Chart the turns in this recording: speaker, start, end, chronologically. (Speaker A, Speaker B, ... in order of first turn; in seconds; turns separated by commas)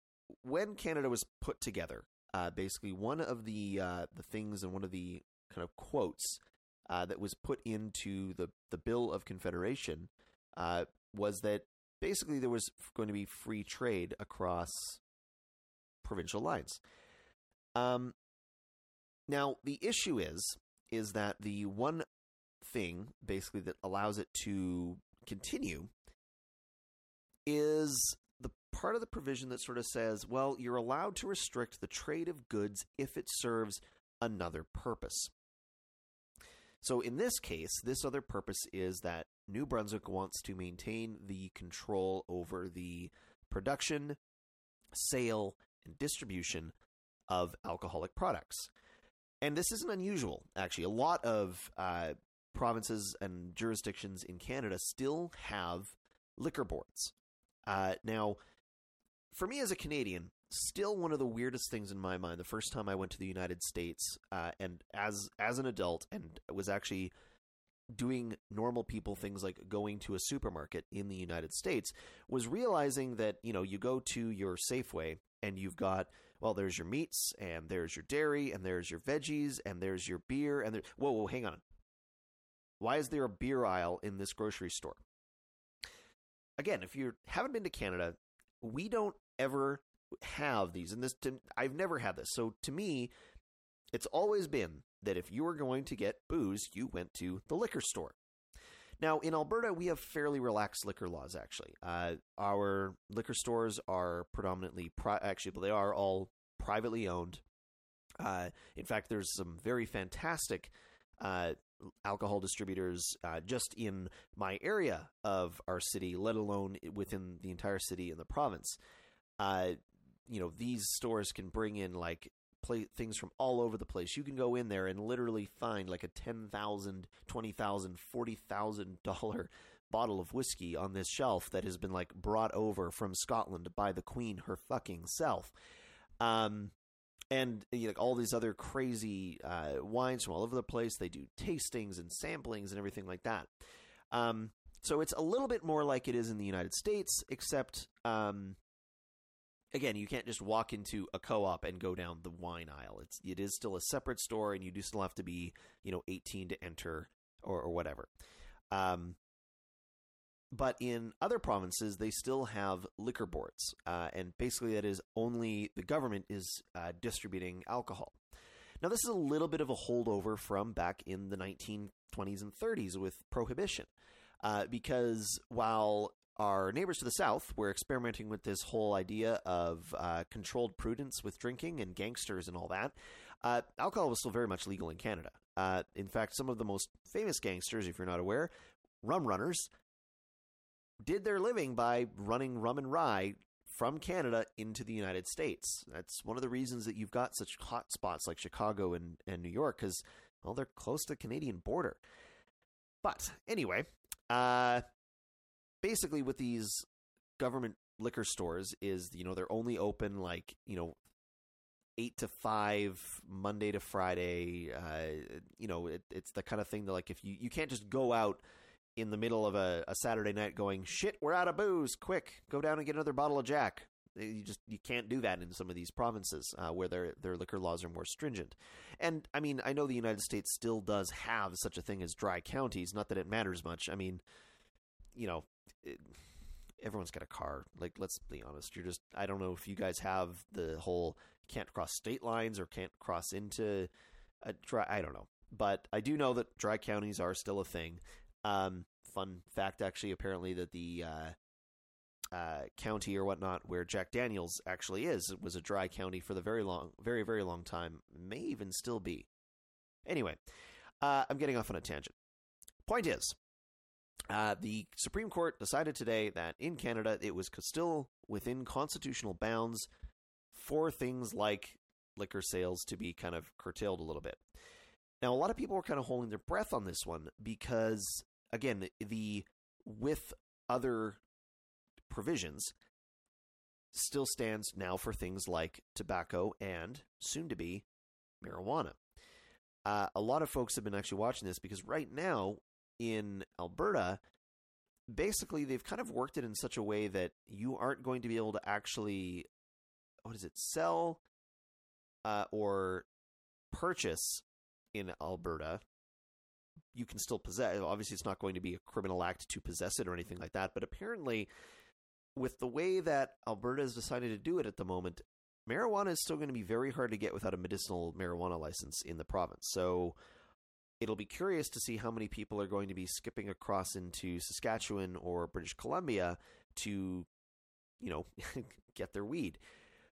Speaker A: 0.4-15.0, Speaker A: 16.0-16.8, Speaker A: 17.8-18.1, Speaker A: 19.3-22.1, Speaker A: 22.6-25.9, Speaker A: 27.5-35.3, Speaker A: 36.8-44.2, Speaker A: 44.9-46.7, Speaker A: 47.3-48.7, Speaker A: 49.4-57.1, Speaker A: 57.7-58.4, Speaker A: 59.3-67.1, Speaker A: 67.9-81.6, Speaker A: 82.8-85.0, Speaker A: 86.6-93.1, Speaker A: 93.9-98.2, Speaker A: 99.0-107.4, Speaker A: 108.2-118.8, Speaker A: 119.4-135.5, Speaker A: 136.2-136.7, Speaker A: 137.3-143.5, Speaker A: 144.1-148.6, Speaker A: 149.7-158.1, Speaker A: 158.7-159.2, Speaker A: 160.5-168.2, Speaker A: 168.8-173.9, Speaker A: 174.4-188.5, Speaker A: 189.0-189.7, Speaker A: 191.0-202.0, Speaker A: 203.0-204.8, Speaker A: 205.8-206.9, Speaker A: 207.4-210.9, Speaker A: 212.0-218.4, Speaker A: 219.0-234.2, Speaker A: 235.1-236.1, Speaker A: 236.8-243.9, Speaker A: 244.4-251.3, Speaker A: 252.3-259.3, Speaker A: 260.1-260.4, Speaker A: 261.0-262.1, Speaker A: 262.9-263.4, Speaker A: 264.3-269.9, Speaker A: 270.5-274.4, Speaker A: 275.2-281.2, Speaker A: 282.1-282.7, Speaker A: 283.9-287.9, Speaker A: 288.4-289.0, Speaker A: 289.9-294.2, Speaker A: 295.1-299.5, Speaker A: 300.2-301.2, Speaker A: 302.2-303.1, Speaker A: 303.7-304.4, Speaker A: 304.9-305.8, Speaker A: 306.9-311.5, Speaker A: 312.4-320.2, Speaker A: 321.0-327.3, Speaker A: 328.0-329.6